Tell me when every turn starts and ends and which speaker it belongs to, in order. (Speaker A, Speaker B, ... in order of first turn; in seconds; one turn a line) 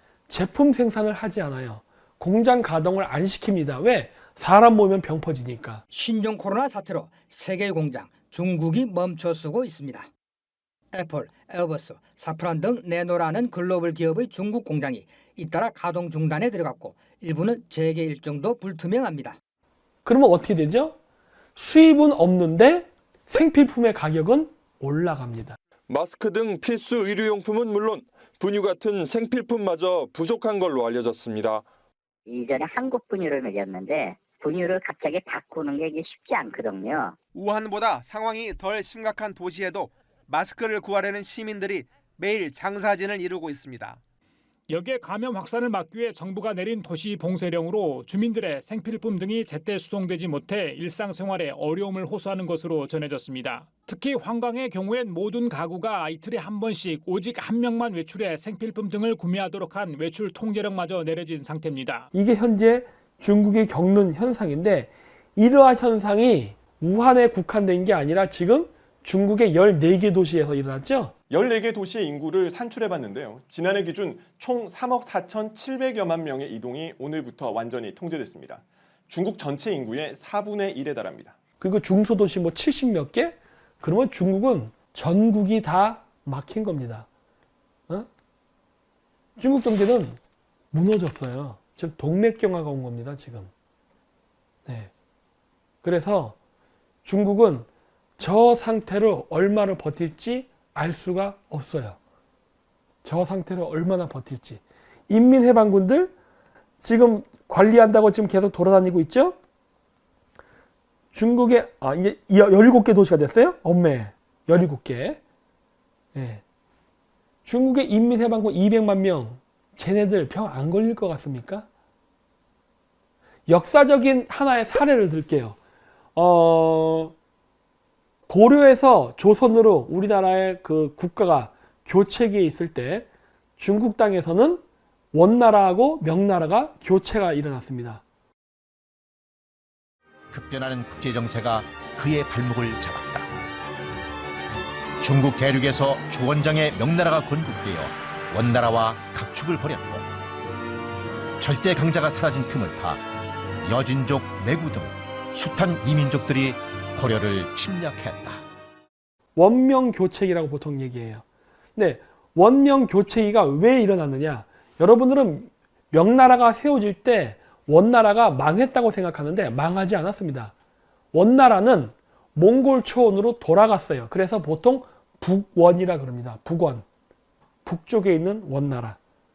Speaker A: 0.3-5.8
Speaker B: 5.9-10.1
Speaker B: 10.9-19.4
Speaker A: 20.1-21.0
Speaker A: 21.6-25.6
Speaker C: 25.9-31.7
Speaker D: 32.3-37.2
Speaker E: 37.4-44.0
Speaker F: 44.7-62.1
Speaker A: 62.1-71.1
Speaker G: 71.3-81.3
Speaker A: 81.6-87.1
Speaker A: 89.4-90.2
Speaker A: 90.7-93.5
Speaker A: 94.7-94.9
Speaker A: 95.8-96.4
Speaker A: 97.0-97.7
Speaker A: 98.2-102.0
Speaker A: 103.0-106.1
Speaker A: 106.8-109.4
Speaker A: 111.1-115.2
Speaker A: 116.2-116.4
Speaker A: 117.5-121.7
Speaker A: 123.5-125.6
Speaker A: 126.2-127.1
Speaker A: 128.3-133.1
Speaker A: 133.6-138.0
Speaker H: 140.3-143.3
Speaker H: 145.0-150.1
Speaker H: 151.4-153.0
Speaker H: 153.6-158.4
Speaker A: 159.4-161.2
Speaker A: 161.8-170.5
Speaker A: 171.1-176.8
Speaker A: 177.7-179.0